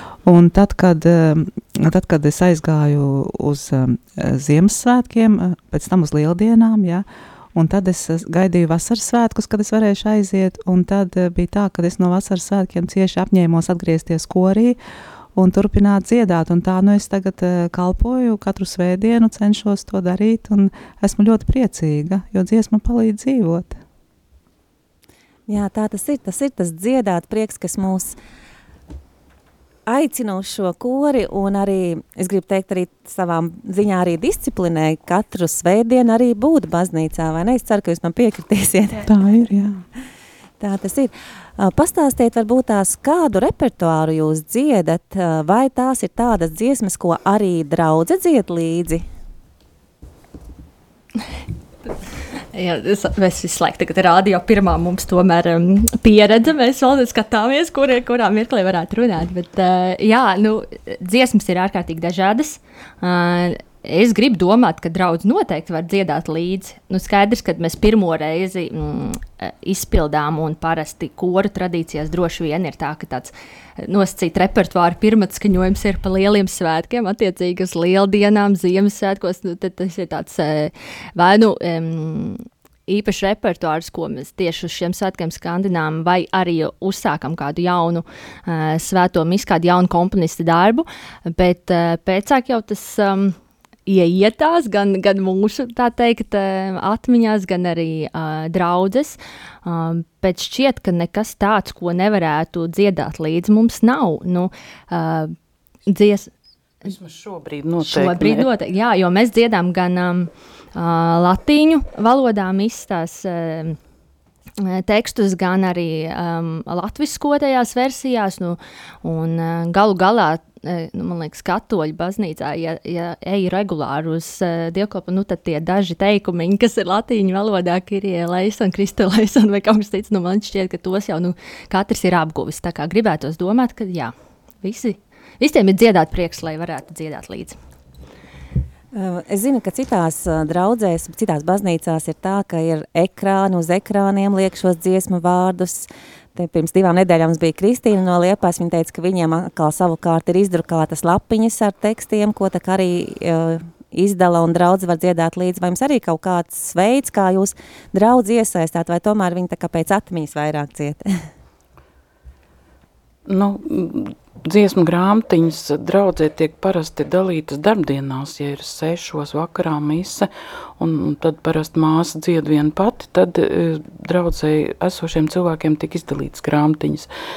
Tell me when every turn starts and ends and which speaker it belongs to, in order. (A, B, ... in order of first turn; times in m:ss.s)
0:00.2-0:14.8 A
0:15.4-0:23.8 A
0:25.5-0:28.2 B
0:29.9-0:39.1 B
0:39.0-0:39.8 A
0:40.6-0:49.0 B
0:52.5-1:45.3 C
1:45.9-1:46.3 C
1:46.8-1:48.5 D
1:47.8-1:53.8 C
1:54.6-2:17.6 C
2:18.9-2:41.1 B
2:43.3-2:57.1 D